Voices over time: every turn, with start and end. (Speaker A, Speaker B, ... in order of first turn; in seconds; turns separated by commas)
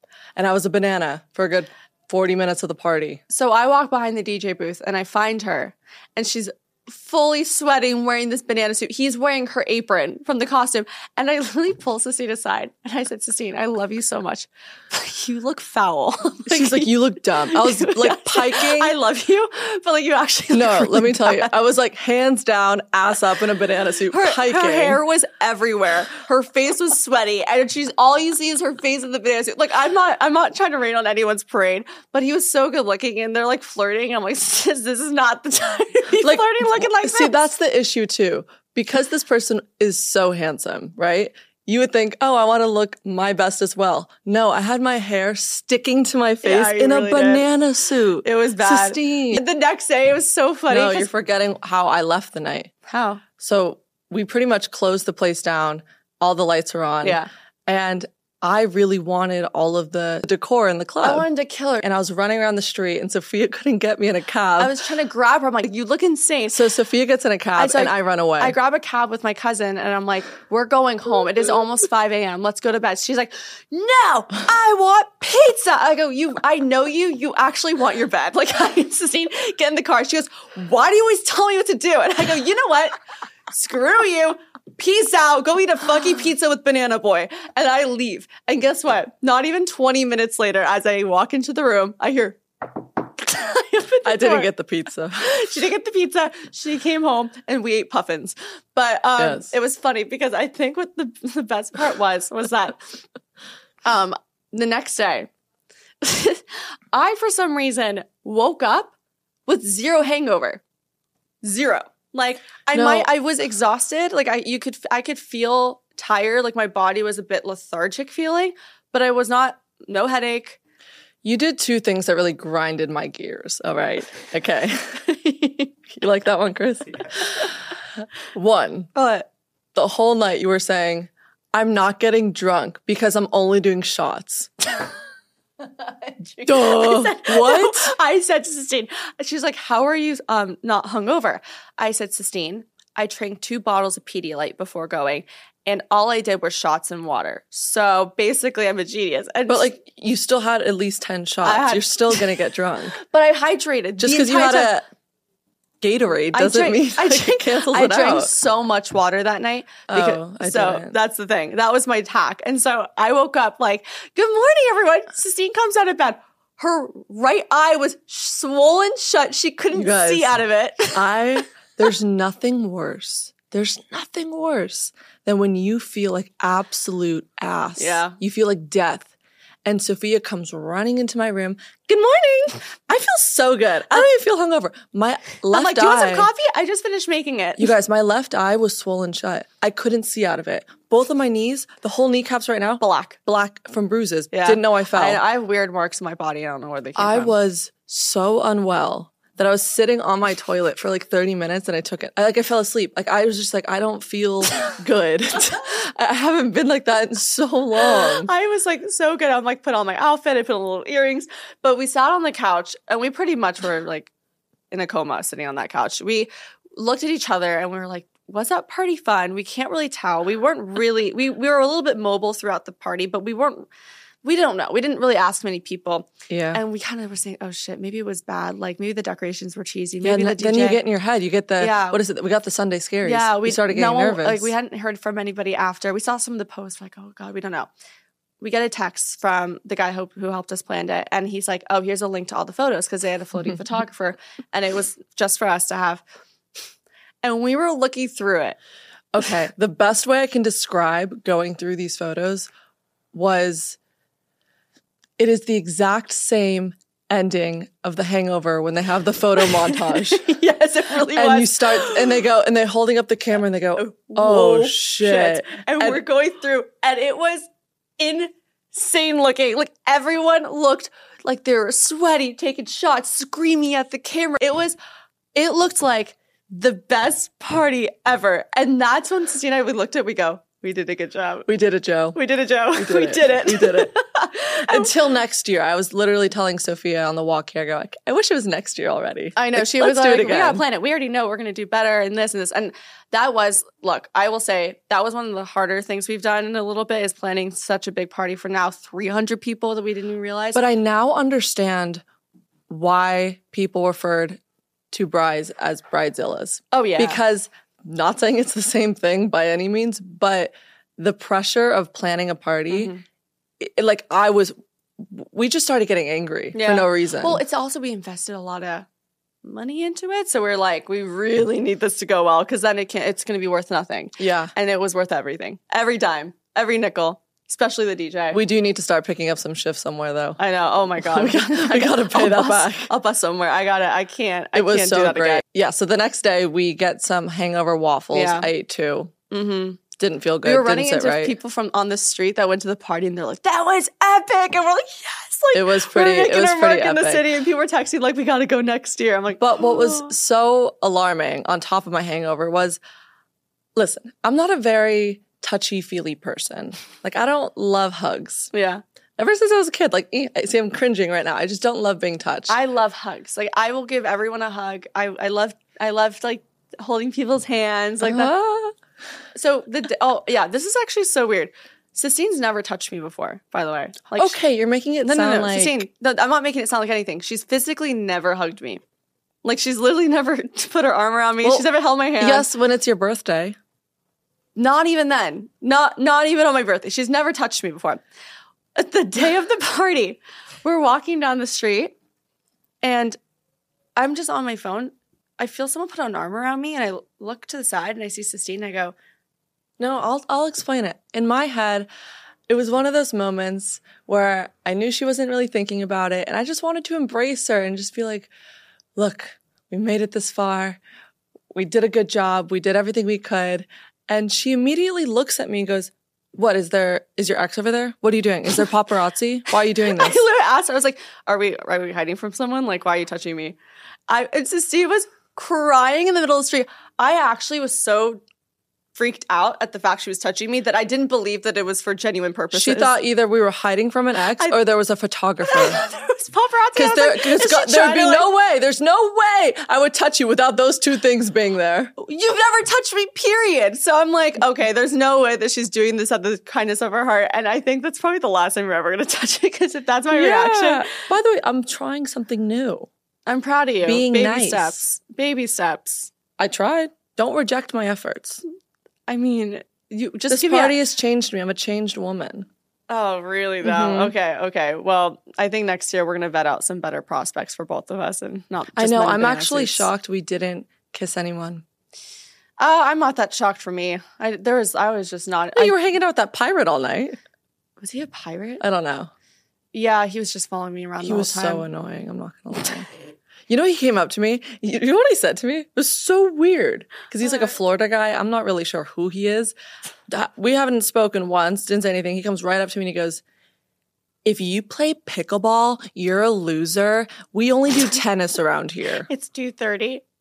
Speaker A: 0.4-3.2, Speaker B: 3.3-16.9, Speaker A: 16.5-18.9, Speaker B: 17.4-21.5, Speaker A: 20.5-25.0, Speaker B: 24.1-37.4, Speaker A: 36.2-49.4, Speaker B: 46.4-47.5, Speaker B: 48.2-51.1, Speaker A: 50.7-52.7, Speaker B: 52.9-53.2, Speaker A: 53.4-61.3, Speaker B: 57.0-57.3, Speaker B: 61.0-61.9, Speaker A: 61.8-64.8, Speaker B: 64.6-66.6, Speaker A: 66.5-68.6, Speaker B: 67.6-83.0, Speaker B: 83.5-92.4, Speaker B: 93.2-94.5, Speaker A: 94.0-95.4, Speaker B: 95.2-103.0, Speaker A: 99.2-99.5, Speaker B: 103.8-105.3, Speaker B: 106.0-108.9, Speaker B: 109.5-110.6, Speaker B: 111.4-120.6, Speaker A: 112.7-113.1, Speaker A: 121.2-125.0, Speaker B: 125.1-125.7, Speaker A: 125.9-127.6, Speaker A: 128.3-128.9, Speaker B: 128.9-129.3, Speaker A: 129.8-134.6, Speaker B: 136.0-149.7, Speaker A: 136.4-137.9, Speaker A: 149.5-153.0, Speaker B: 151.4-152.3, Speaker B: 153.0-154.8, Speaker A: 154.0-154.8, Speaker A: 155.8-158.3, Speaker B: 156.3-171.1, Speaker A: 159.9-160.9, Speaker A: 169.8-170.3, Speaker A: 170.9-179.1, Speaker B: 177.8-178.2, Speaker A: 179.7-186.3, Speaker B: 185.5-187.7, Speaker A: 187.6-195.2, Speaker B: 192.8-193.2, Speaker B: 194.3-197.3, Speaker A: 197.0-208.3, Speaker B: 207.8-214.1, Speaker B: 214.7-223.7, Speaker B: 224.2-230.8, Speaker A: 226.3-226.6, Speaker A: 230.0-234.5, Speaker B: 231.6-232.0, Speaker B: 233.0-237.7, Speaker B: 238.4-246.0, Speaker B: 247.2-248.6, Speaker A: 249.1-252.5, Speaker A: 253.1-253.8, Speaker A: 255.2-260.4, Speaker B: 259.4-262.2, Speaker A: 261.1-266.0, Speaker B: 263.8-267.5, Speaker B: 268.0-274.8, Speaker B: 275.4-281.5, Speaker A: 281.5-282.2, Speaker B: 282.1-284.9, Speaker A: 282.7-283.9, Speaker A: 284.6-290.6, Speaker B: 289.4-300.6, Speaker A: 300.5-302.0, Speaker A: 302.7-304.4, Speaker A: 304.9-312.9, Speaker B: 306.7-307.2, Speaker B: 312.7-313.0, Speaker A: 313.6-317.4, Speaker B: 316.5-318.9, Speaker B: 319.4-328.4, Speaker A: 324.2-324.5, Speaker A: 328.3-330.4, Speaker B: 330.4-335.4, Speaker A: 331.0-332.9, Speaker A: 334.5-339.1, Speaker B: 338.1-338.5, Speaker B: 339.3-339.8, Speaker A: 340.0-341.4, Speaker B: 340.4-350.1, Speaker A: 345.5-347.3, Speaker A: 349.4-352.8, Speaker A: 353.8-358.5, Speaker B: 358.5-358.8, Speaker A: 359.2-362.6, Speaker B: 362.5-368.3, Speaker A: 368.0-368.8, Speaker B: 369.4-374.4, Speaker A: 374.2-375.9, Speaker B: 375.0-378.8, Speaker B: 379.4-382.5, Speaker A: 381.4-381.7, Speaker A: 382.2-383.6, Speaker B: 384.6-388.0, Speaker B: 388.8-391.9, Speaker B: 392.8-393.2, Speaker B: 394.0-398.9, Speaker A: 399.8-401.9, Speaker A: 402.5-408.3, Speaker A: 409.0-410.8, Speaker A: 411.5-420.2, Speaker B: 419.8-423.6, Speaker B: 424.1-428.2, Speaker B: 428.9-433.0, Speaker A: 432.5-435.8, Speaker B: 435.5-438.3, Speaker A: 436.8-441.9, Speaker B: 442.0-450.9, Speaker A: 450.1-452.9, Speaker B: 453.3-456.1, Speaker A: 453.8-454.9, Speaker A: 456.4-458.4, Speaker B: 459.1-460.8, Speaker A: 460.3-462.5, Speaker B: 462.9-469.9, Speaker A: 463.6-464.1, Speaker A: 468.8-471.6, Speaker B: 472.6-475.8, Speaker A: 475.6-477.2, Speaker B: 477.8-478.6, Speaker A: 478.6-479.1, Speaker B: 479.7-481.7, Speaker A: 481.0-482.9, Speaker A: 483.5-489.6, Speaker A: 490.1-493.2, Speaker A: 494.2-499.1, Speaker B: 499.1-500.0